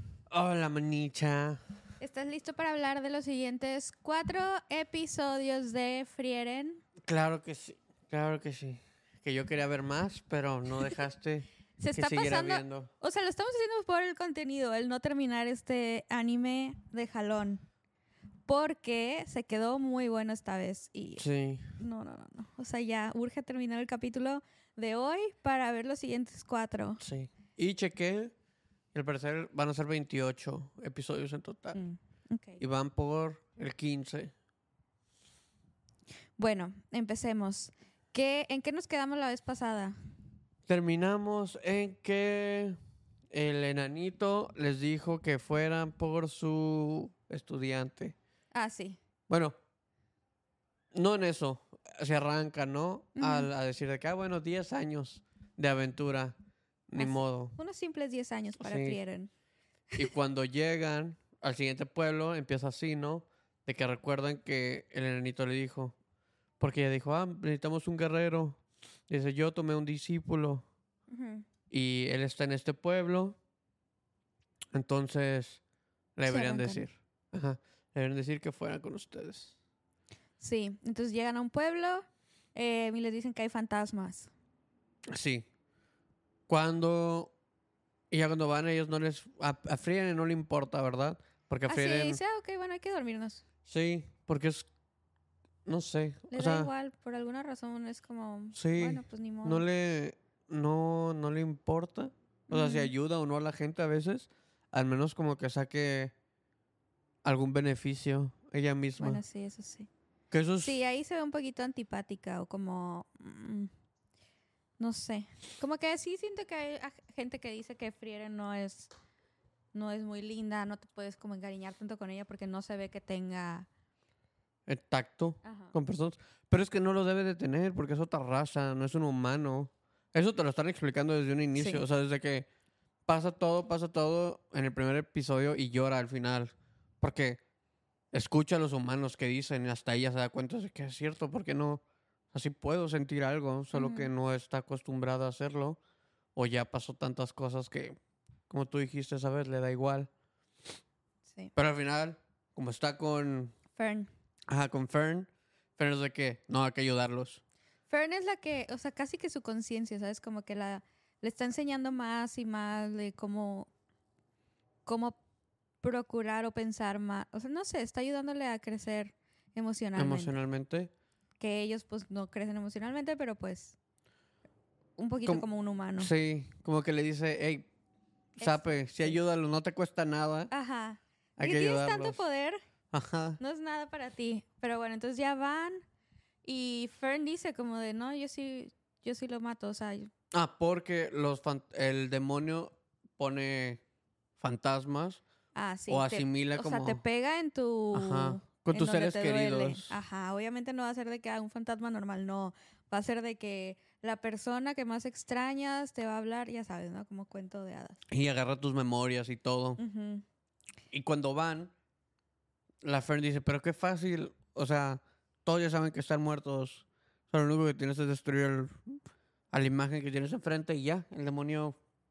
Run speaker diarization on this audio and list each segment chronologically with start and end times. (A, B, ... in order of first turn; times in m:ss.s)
0:00.3-0:01.6 A
0:02.0-0:06.8 B
0:07.0-0:12.9 A
0:11.8-0:17.6 B
0:18.5-0:21.2 B
0:21.2-0:21.7 A
0:21.8-0:27.0 B
0:27.0-0:28.3 A
0:28.9-0:31.8 A
0:31.8-0:32.6 B
0:32.6-0:34.3 A
0:36.4-0:40.0 B
0:40.7-0:42.8 A
0:43.3-0:48.2 A
0:48.5-0:49.0 B
0:49.3-0:49.5 A
0:50.9-0:56.3 A
0:53.2-0:53.5 B
0:56.9-0:57.6 A
0:57.0-0:59.3 B
0:58.6-0:59.0 A
1:00.0-1:06.0 A
1:06.6-1:10.6 A
1:11.1-1:11.4 B
1:11.7-1:13.4 A
1:14.7-1:15.6 A
1:16.2-1:19.5 A
1:16.3-1:16.8 B
1:20.4-1:24.3 B
1:25.1-1:25.5 A
1:26.5-1:27.3 A
1:28.1-1:32.2 A
1:31.7-1:33.4 B
1:33.7-1:34.7 A
1:35.7-1:36.7 A
1:36.3-1:39.7 B
1:38.6-1:46.1 A
1:42.5-1:42.9 B
1:47.2-1:49.2 A
1:49.0-1:49.9 B
1:50.3-1:50.7 A
1:50.6-1:53.7 B
1:54.8-1:58.9 B
1:59.7-2:03.7 B
2:04.7-2:12.5 A
2:05.4-2:05.7 B
2:11.6-2:11.8 B
2:13.1-2:17.4 A
2:18.1-2:21.8 A
2:22.3-2:25.8 A
2:23.7-2:24.1 B
2:26.4-2:28.0 A
2:28.5-2:30.1 A
2:31.6-2:33.6 A
2:33.8-2:34.1 B
2:34.5-2:37.4 A
2:37.9-2:43.7 B
2:44.9-2:45.2 B
2:45.8-2:50.3 B
2:50.0-2:50.9 A
2:51.4-2:53.8 B
2:55.0-2:56.1 B
2:56.0-2:57.7 A
2:58.4-3:00.5 A
2:58.4-2:59.2 B
3:00.5-3:02.6 B
3:01.4-3:02.2 A
3:02.9-3:03.4 A
3:03.4-3:05.8 B
3:06.4-3:10.1 B
3:10.3-3:13.8 A
3:14.4-3:15.2 A
3:15.6-3:28.0 B
3:15.9-3:17.0 A
3:17.9-3:20.0 A
3:28.1-3:29.8 A
3:29.8-3:30.2 B
3:30.9-3:31.7 A
3:32.8-3:38.9 A
3:39.5-3:41.8 A